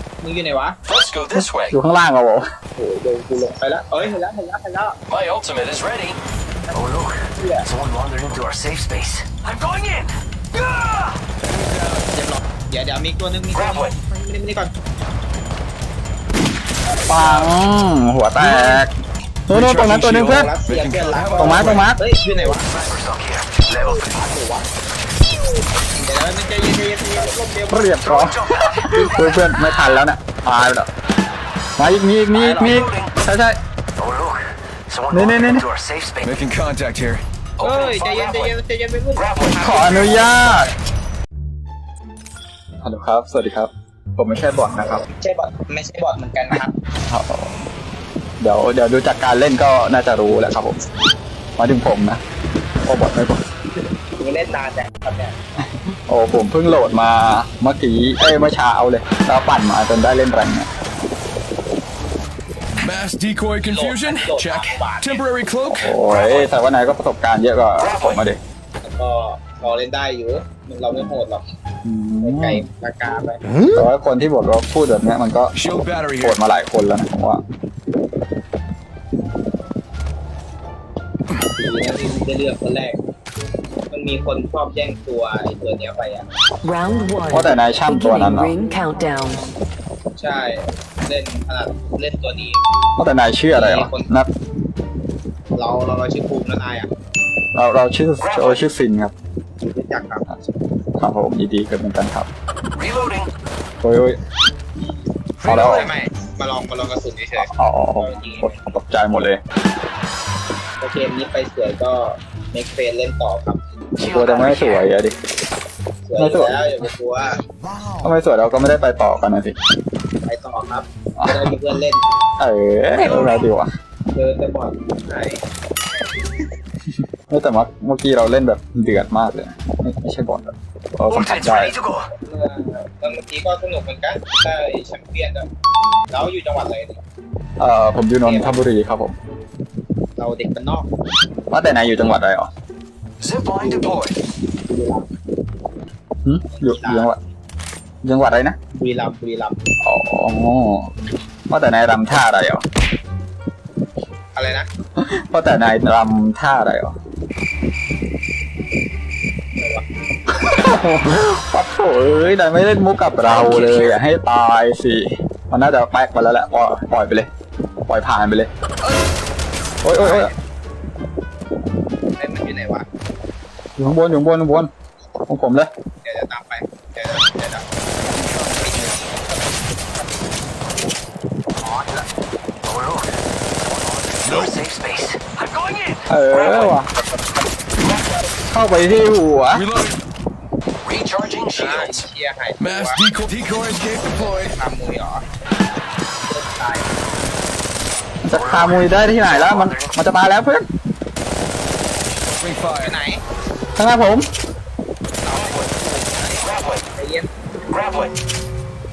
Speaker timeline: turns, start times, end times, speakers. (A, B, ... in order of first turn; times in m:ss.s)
0:00.2-0:00.8 A
0:00.9-0:01.7 B
0:01.3-0:02.4 C
0:02.8-0:05.0 A
0:05.1-0:06.2 B
0:06.7-0:10.1 B
0:07.4-0:07.6 A
0:11.4-0:12.0 D
0:12.1-0:14.7 A
0:17.1-0:18.9 C
0:18.4-0:18.8 D
0:19.5-0:20.5 C
0:19.5-0:21.9 D
0:20.2-0:22.6 A
0:21.4-0:22.0 C
0:22.7-0:24.1 B
0:24.0-0:24.7 A
0:26.0-0:27.9 A
0:27.7-0:30.9 C
0:28.0-0:29.0 B
0:28.9-0:29.2 A
0:31.8-0:33.6 C
0:32.3-0:32.9 A
0:32.6-0:33.1 B
0:34.0-0:36.3 B
0:35.1-0:35.7 C
0:36.2-0:37.2 D
0:37.6-0:40.7 A
0:37.6-0:38.3 B
0:39.6-0:40.7 C
0:42.8-0:45.0 C
0:45.1-0:46.7 A
0:46.5-0:47.6 C
0:48.4-0:50.8 C
0:51.6-0:52.2 C
0:52.8-0:53.4 C
0:54.2-0:55.4 A
0:56.1-1:00.7 C
1:02.8-1:05.9 D
1:03.7-1:05.2 A
1:05.7-1:08.4 C
1:08.8-1:11.4 A
1:11.8-1:12.6 C
1:12.2-1:13.4 A
1:13.7-1:15.5 C
1:15.5-1:16.4 D
1:16.2-1:17.4 C
1:21.5-1:23.0 A
1:23.9-1:26.2 A
1:26.6-1:29.5 E
1:27.3-1:28.5 C
1:30.2-1:32.6 A
1:33.0-1:34.3 C
1:33.5-1:34.1 A
1:35.5-1:36.9 A
1:37.5-1:39.1 C
1:39.6-1:40.3 A
1:41.0-1:42.3 C
1:42.8-1:43.3 B
1:43.8-1:44.2 C
1:45.4-1:45.8 B
1:45.4-1:45.9 C
1:45.5-1:48.6 A
1:47.4-1:49.4 C
1:50.8-1:53.6 A
1:54.0-1:54.8 B
1:54.0-1:55.1 C
1:56.1-1:57.4 A
1:56.2-1:56.6 C
1:58.0-1:59.6 C
2:00.2-2:02.0 A
2:01.2-2:01.5 C
2:02.4-2:03.7 C
2:02.9-2:03.4 B
2:04.1-2:05.4 A
2:07.3-2:11.7 C
2:11.1-2:12.1 B
2:12.2-2:15.5 A
2:16.1-2:17.0 A
2:17.6-2:19.2 C
2:18.2-2:18.6 A
2:20.2-2:20.9 A
2:21.5-2:22.5 C
2:23.2-2:24.2 B
2:24.7-2:25.0 A
2:26.2-2:27.2 C
2:26.5-2:27.1 A
2:28.0-2:28.6 C
2:28.7-2:29.6 A
2:29.8-2:30.9 C
2:31.5-2:32.6 C
2:34.3-2:34.7 A
2:35.0-2:36.9 C
2:39.6-2:39.8 A
2:40.3-2:47.3 C
2:40.4-2:40.8 A
2:43.2-2:44.0 B
2:47.9-2:48.5 C
2:49.8-2:50.3 C
2:50.0-2:50.3 A
2:52.2-2:52.8 A
2:53.8-2:54.7 C
2:55.3-2:55.7 C
2:56.0-2:57.7 A
2:58.6-2:59.7 A
3:01.6-3:02.0 A
3:02.7-3:03.0 B
3:03.8-3:06.7 B
3:04.2-3:04.6 D
3:06.1-3:06.9 C
3:06.9-3:08.2 A
3:08.5-3:09.6 C
3:09.5-3:10.0 D
3:10.8-3:12.0 B
3:11.5-3:13.0 A
3:12.6-3:14.5 D
3:14.4-3:15.2 A
3:16.2-3:16.9 A
3:18.2-3:20.6 C
3:18.4-3:19.9 B
3:22.3-3:22.9 D
3:22.8-3:23.2 A
3:23.8-3:24.3 C
3:25.2-3:27.3 A